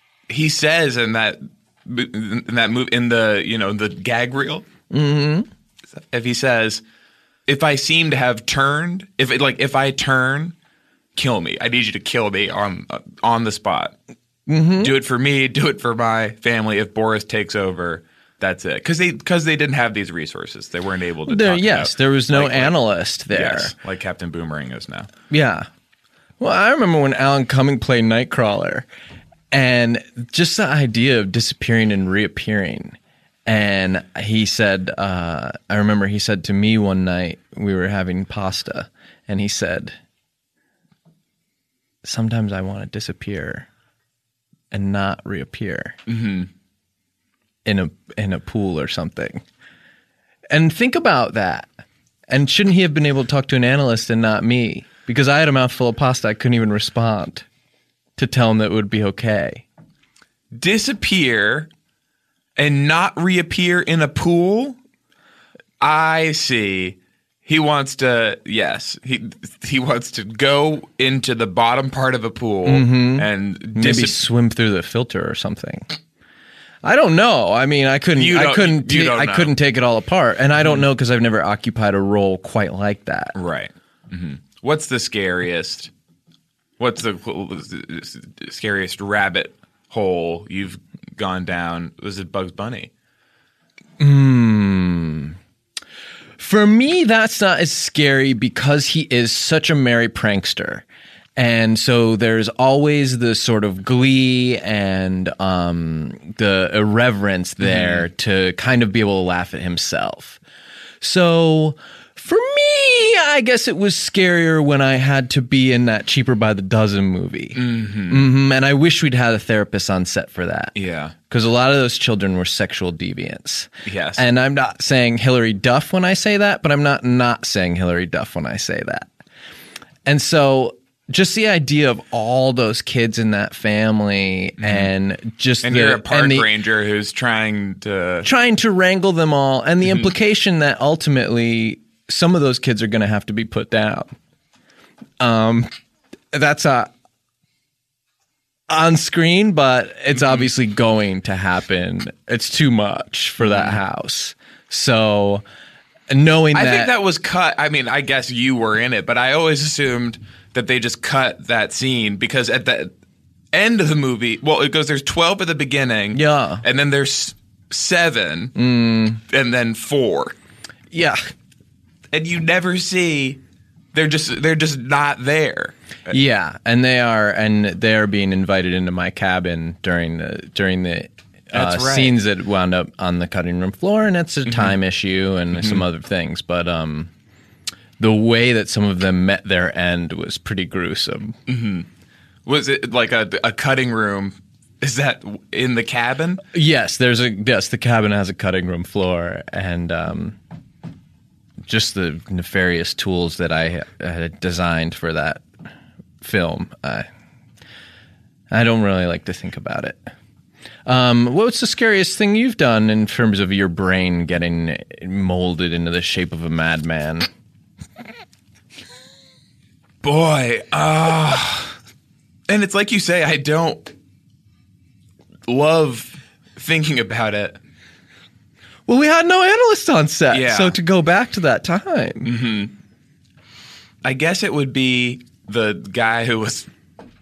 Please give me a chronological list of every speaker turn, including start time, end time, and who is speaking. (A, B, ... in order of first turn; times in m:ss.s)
0:00.3-0:04.6 A
0:04.9-0:05.5 B
0:05.9-0:06.8 A
0:07.5-0:10.5 A
0:11.2-0:13.9 A
0:14.5-0:14.9 B
0:14.8-0:25.1 A
0:21.3-0:23.7 B
0:25.3-0:25.7 B
0:26.4-0:28.9 B
0:29.5-0:40.0 B
0:42.0-0:43.7 B
0:44.7-0:46.0 B
0:46.1-0:46.5 A
0:47.6-0:49.4 B
0:50.5-0:51.7 B
0:52.3-0:57.4 B
0:58.2-0:59.6 B
1:00.5-1:01.7 A
1:02.6-1:04.8 A
1:05.8-1:14.2 A
1:12.6-1:15.9 B
1:16.8-1:23.3 B
1:18.2-1:19.5 A
1:20.6-1:20.8 A
1:23.3-1:25.9 A
1:26.8-1:32.9 A
1:34.0-1:35.4 B
1:36.4-1:40.8 B
1:41.4-1:50.4 B
1:47.6-1:48.1 A
1:51.0-2:00.7 B
1:57.5-1:58.3 A
2:00.7-2:01.1 A
2:01.3-2:09.1 B
2:03.8-2:04.2 A
2:10.0-2:16.5 B
2:14.6-2:14.9 A
2:15.6-2:18.3 A
2:18.2-2:24.1 B
2:25.2-2:25.7 B
2:26.3-2:26.9 B
2:28.7-2:35.4 B
2:30.2-2:30.4 A
2:33.4-2:33.8 A
2:36.1-2:36.9 B
2:36.5-2:42.9 A
2:43.5-2:48.5 A
2:46.1-2:46.6 B
2:48.6-2:49.2 B
2:49.3-2:50.4 A
2:50.9-2:51.2 B
2:52.1-2:53.4 A
2:53.9-2:56.1 A
2:56.1-3:07.1 B
3:01.5-3:02.2 A
3:04.4-3:04.8 A
3:05.5-3:05.8 A
3:08.0-3:11.4 B
3:11.5-3:11.9 A
3:12.4-3:16.4 A
3:16.5-3:20.4 B
3:21.7-3:25.4 B
3:26.2-3:27.1 B
3:28.5-3:30.1 B
3:30.8-3:37.3 B
3:40.0-3:41.7 A
3:42.5-3:43.9 A
3:45.5-3:47.6 A
3:48.9-3:52.3 B
3:50.3-3:50.8 A
3:52.2-3:52.7 A
3:54.0-3:56.7 A